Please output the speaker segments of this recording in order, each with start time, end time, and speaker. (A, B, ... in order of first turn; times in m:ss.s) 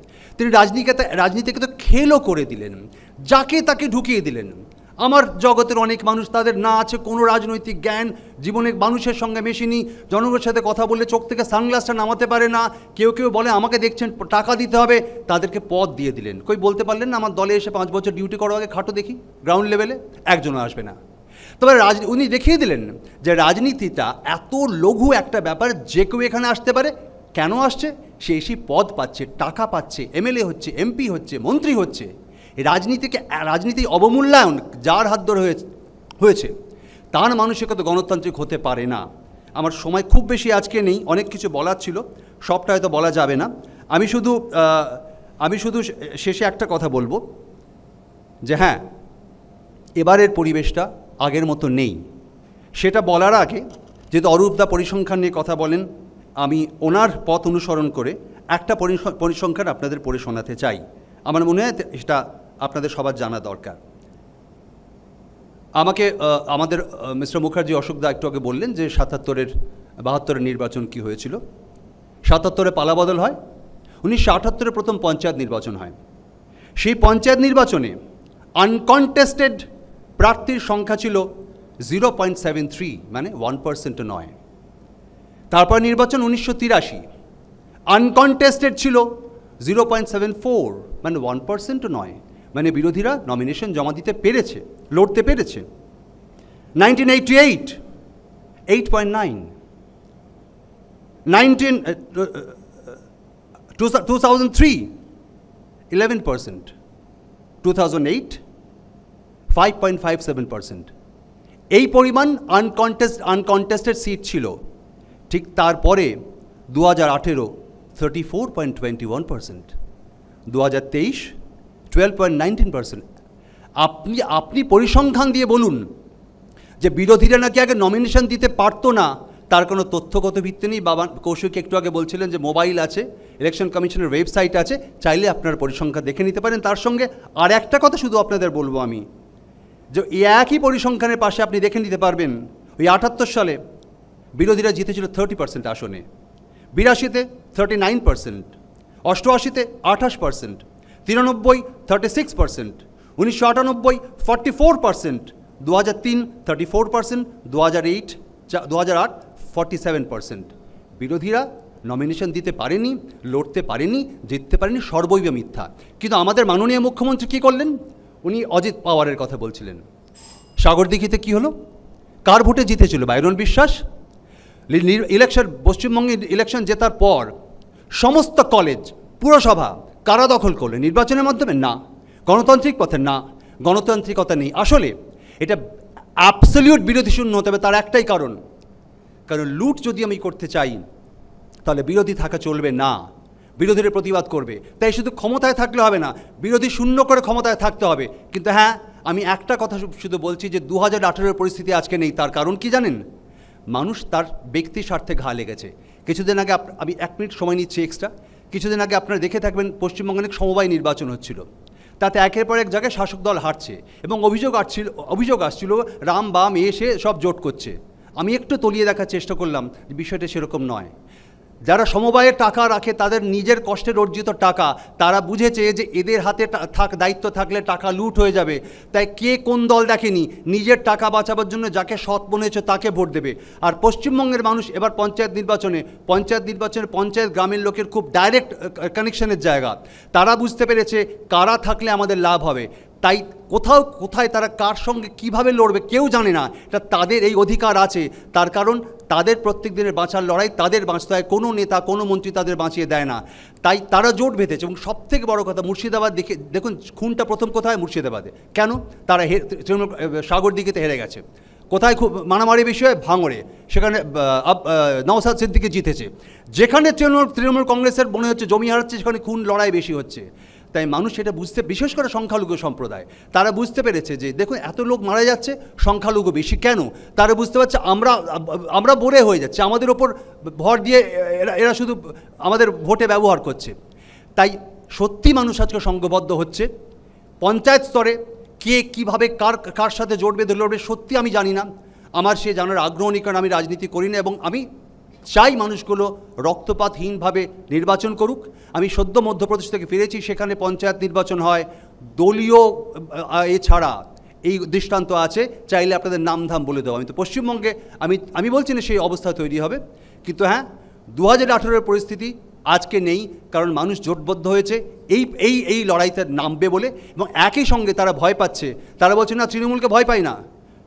0:00.4-0:21.0 A
0:21.6-0:32.1 A
0:32.6-0:35.6 A
0:36.2-0:36.5 A
0:37.1-0:39.0 A
0:39.6-0:47.2 A
0:48.5-0:48.8 A
0:50.0-0:52.0 A
0:52.8-0:55.8 A
0:56.4-1:03.8 A
1:05.8-1:09.5 A
1:10.0-1:11.4 A
1:12.3-1:13.4 A
1:14.0-1:16.0 A
1:16.8-1:18.0 A
1:18.6-1:19.6 A
1:20.2-1:21.3 A
1:21.8-1:24.3 A
1:25.5-1:27.0 A
1:27.9-1:29.1 A
1:29.6-1:35.7 A
1:36.8-1:37.8 A
1:38.7-1:39.5 A
1:41.3-1:42.6 A
1:43.8-1:44.9 A
1:45.9-1:46.7 A
1:47.6-1:48.4 A
1:49.5-1:50.9 A
1:51.7-1:54.6 A
1:55.3-1:56.1 A
1:56.7-1:59.7 A
2:00.5-2:01.3 A
2:01.9-2:03.0 A
2:03.8-2:05.9 A
2:06.8-2:19.0 A
2:19.9-2:23.6 A
2:24.4-2:26.0 A
2:26.8-2:28.5 A
2:29.1-2:47.7 A
2:48.2-2:49.8 A
2:50.6-2:51.5 A
2:52.3-2:53.8 A
2:54.7-2:57.3 A
2:58.0-3:05.6 A
3:06.2-3:08.4 A
3:09.3-3:10.8 A
3:11.6-3:13.0 A
3:13.6-3:23.0 A
3:23.7-3:31.4 A
3:32.0-3:40.9 A
3:41.7-4:43.8 A
4:44.4-4:46.7 A
4:47.4-4:54.6 A
4:55.3-5:01.7 A
5:02.2-5:10.6 A
5:11.2-5:20.4 A